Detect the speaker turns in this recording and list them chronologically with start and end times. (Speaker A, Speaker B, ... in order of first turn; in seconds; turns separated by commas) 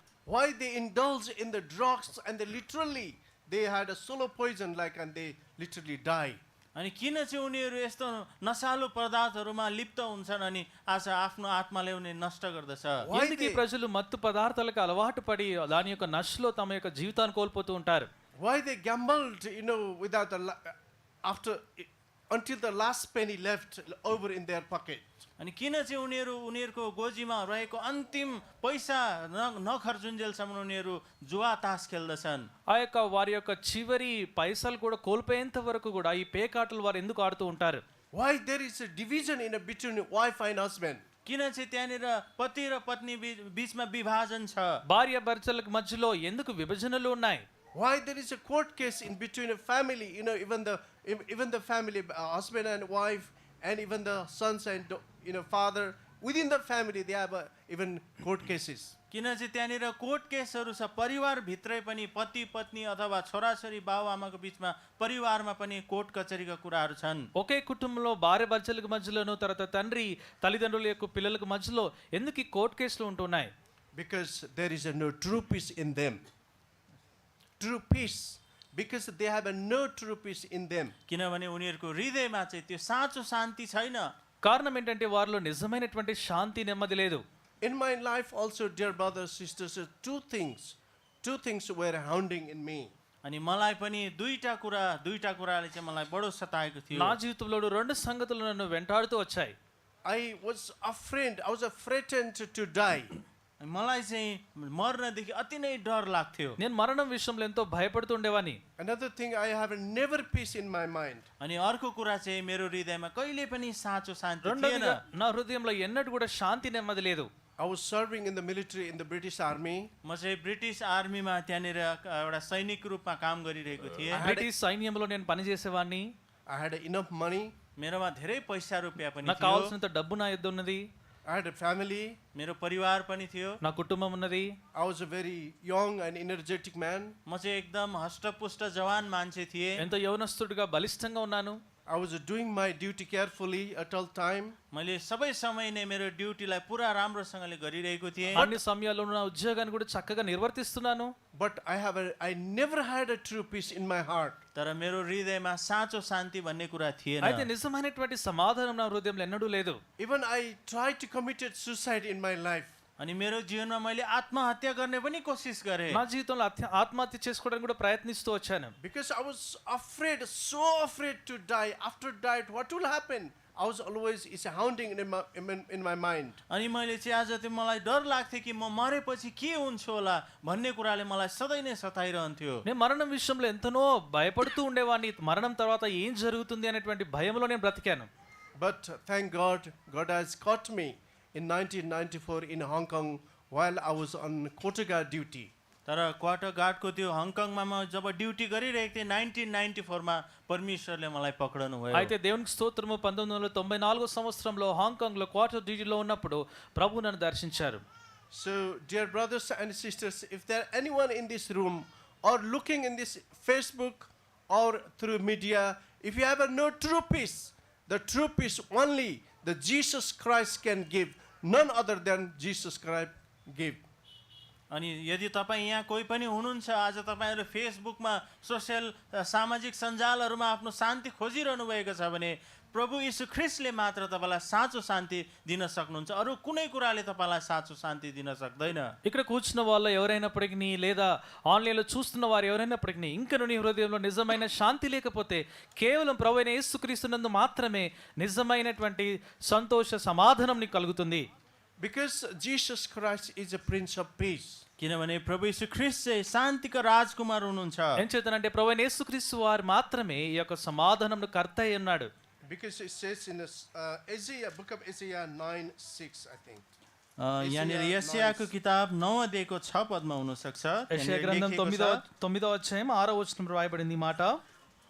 Speaker A: 0.3-6.4, Speaker B: 6.8-13.1, Speaker A: 13.0-13.6, Speaker C: 13.1-18.1, Speaker A: 18.4-25.1, Speaker B: 25.4-32.5, Speaker C: 32.7-37.8, Speaker A: 38.1-41.0, Speaker B: 41.2-44.8, Speaker C: 44.9-47.5, Speaker A: 47.8-59.0, Speaker B: 59.1-67.3, Speaker C: 67.3-73.5, Speaker A: 74.0-76.2, Speaker A: 77.6-80.9, Speaker B: 81.1-84.1, Speaker C: 84.4-87.2, Speaker A: 87.6-92.9, Speaker B: 93.2-97.2, Speaker C: 96.9-99.5, Speaker A: 100.0-103.2, Speaker B: 103.6-106.6, Speaker C: 106.6-108.6, Speaker A: 108.8-111.3, Speaker B: 111.4-115.0, Speaker C: 114.4-117.3, Speaker A: 117.6-119.9, Speaker B: 120.0-124.3, Speaker A: 124.1-124.5, Speaker C: 124.2-126.1, Speaker A: 126.5-127.5, Speaker B: 127.8-129.7, Speaker C: 129.2-130.8, Speaker A: 131.3-132.2, Speaker B: 132.3-133.6, Speaker C: 133.6-134.6, Speaker A: 134.7-137.2, Speaker B: 137.3-139.8, Speaker C: 139.8-141.6, Speaker A: 141.9-144.6, Speaker B: 144.7-148.5, Speaker C: 148.4-151.1, Speaker A: 151.3-154.4, Speaker B: 154.6-157.5, Speaker C: 157.2-159.8, Speaker A: 160.0-162.8, Speaker B: 163.0-166.0, Speaker C: 165.9-168.8, Speaker A: 168.8-176.4, Speaker B: 176.5-182.6, Speaker C: 182.7-188.1, Speaker A: 188.6-195.5, Speaker B: 195.9-202.1, Speaker C: 201.9-207.8, Speaker A: 208.3-223.8, Speaker B: 224.7-238.9, Speaker C: 239.1-251.2, Speaker A: 251.8-254.6, Speaker B: 254.8-258.0, Speaker C: 258.0-262.1, Speaker A: 262.5-266.7, Speaker B: 267.2-272.0, Speaker A: 267.4-268.5, Speaker C: 270.9-274.4